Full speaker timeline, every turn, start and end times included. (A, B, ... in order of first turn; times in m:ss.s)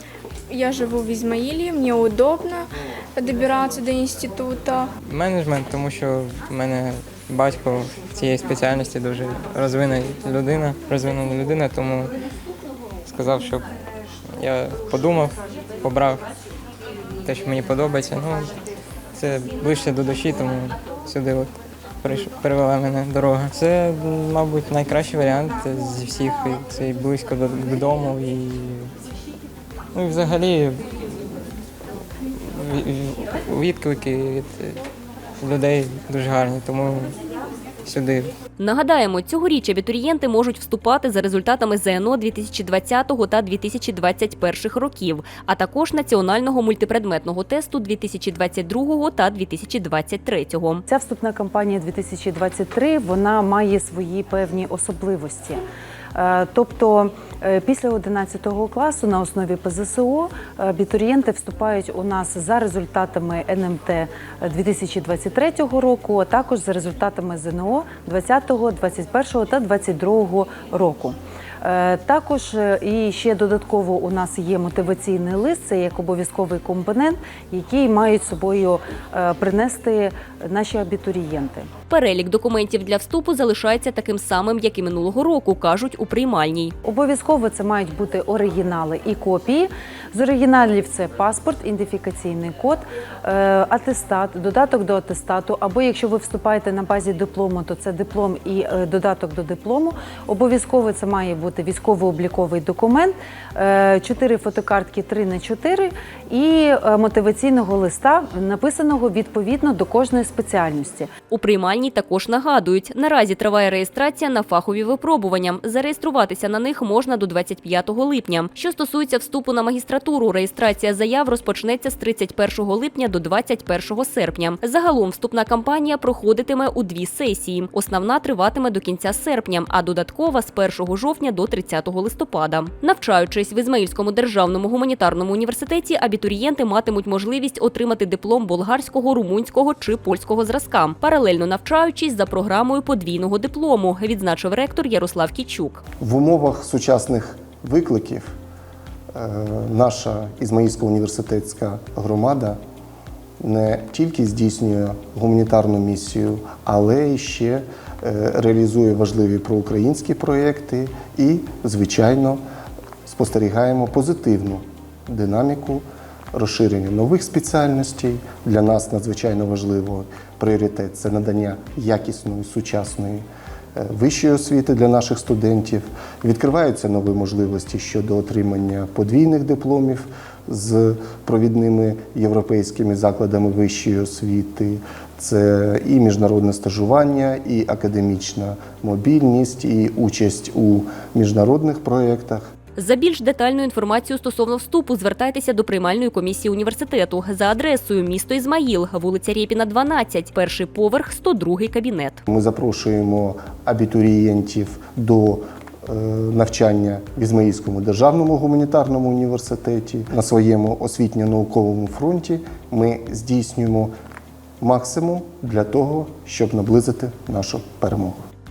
0:00.5-0:04.9 A
0:05.0-0:12.1 B
0:13.0-0:13.6 B
0:14.4-0:16.2 B
0:17.2-0:18.5 B
0:19.1-0:21.5 B
0:22.0-0:28.9 B
0:29.9-0:30.8 B
0:32.4-0:34.8 B
0:35.4-0:37.1 B
0:37.8-0:38.3 B
0:38.6-0:50.8 C
0:50.9-0:55.6 D
0:56.1-1:21.7 D
1:21.9-1:26.7 C
1:26.8-1:51.1 D
1:51.3-2:25.8 C
2:26.0-2:28.3 E
2:29.1-2:32.6 E
2:33.4-2:42.4 E
2:43.0-2:53.2 E
2:53.7-3:12.5 E
3:12.8-3:22.2 C
3:22.3-3:33.9 E
3:34.6-3:38.2 E